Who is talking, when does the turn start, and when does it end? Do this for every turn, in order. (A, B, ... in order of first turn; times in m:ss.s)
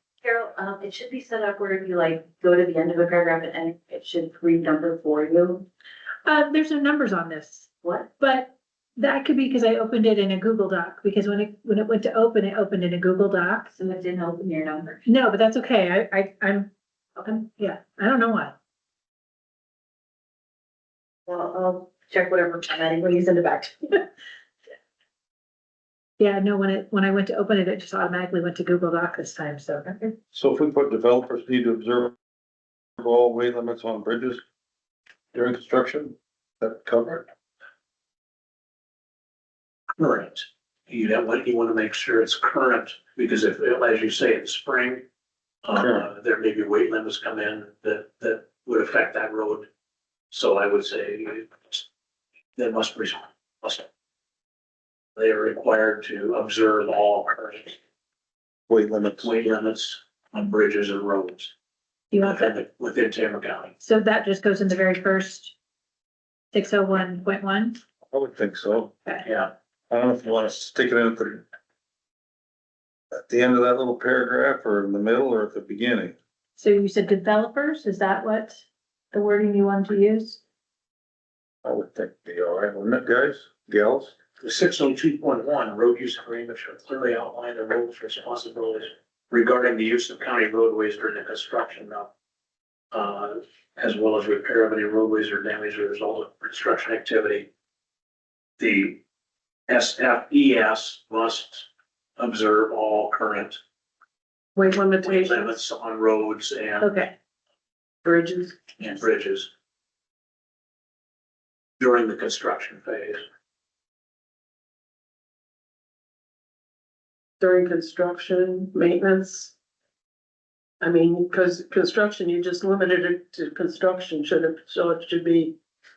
0:00.2-0:05.7 A
0:06.2-0:13.7 B
0:07.8-0:08.1 A
0:13.7-0:15.0 A
0:15.0-0:18.6 B
0:21.3-0:24.0 A
0:26.2-0:30.0 B
0:30.3-0:32.1 C
0:33.0-0:34.4 C
0:35.3-0:37.2 C
0:40.0-0:45.0 D
0:45.6-0:49.7 D
0:45.7-0:46.1 C
0:50.3-0:51.8 D
0:52.6-0:53.8 D
0:55.2-0:57.8 D
0:58.7-0:59.3 C
0:59.2-1:01.5 D
1:02.1-1:02.6 B
1:02.2-1:03.7 D
1:03.8-1:05.5 B
1:06.5-1:07.8 B
1:08.1-1:08.9 C
1:09.2-1:09.5 D
1:09.9-1:11.4 C
1:13.1-1:16.2 C
1:16.6-1:20.4 B
1:21.6-1:24.1 C
1:24.4-1:32.1 D
1:32.9-1:37.5 D
1:38.6-1:39.0 D
1:39.7-1:41.7 D
1:42.2-1:43.6 D
1:44.6-1:45.5 E
1:45.0-1:46.9 D
1:46.8-1:47.1 B
1:48.0-1:48.6 E
1:48.8-1:49.5 D
1:51.8-1:53.2 D
1:57.4-1:59.5 E
2:00.8-2:05.6 E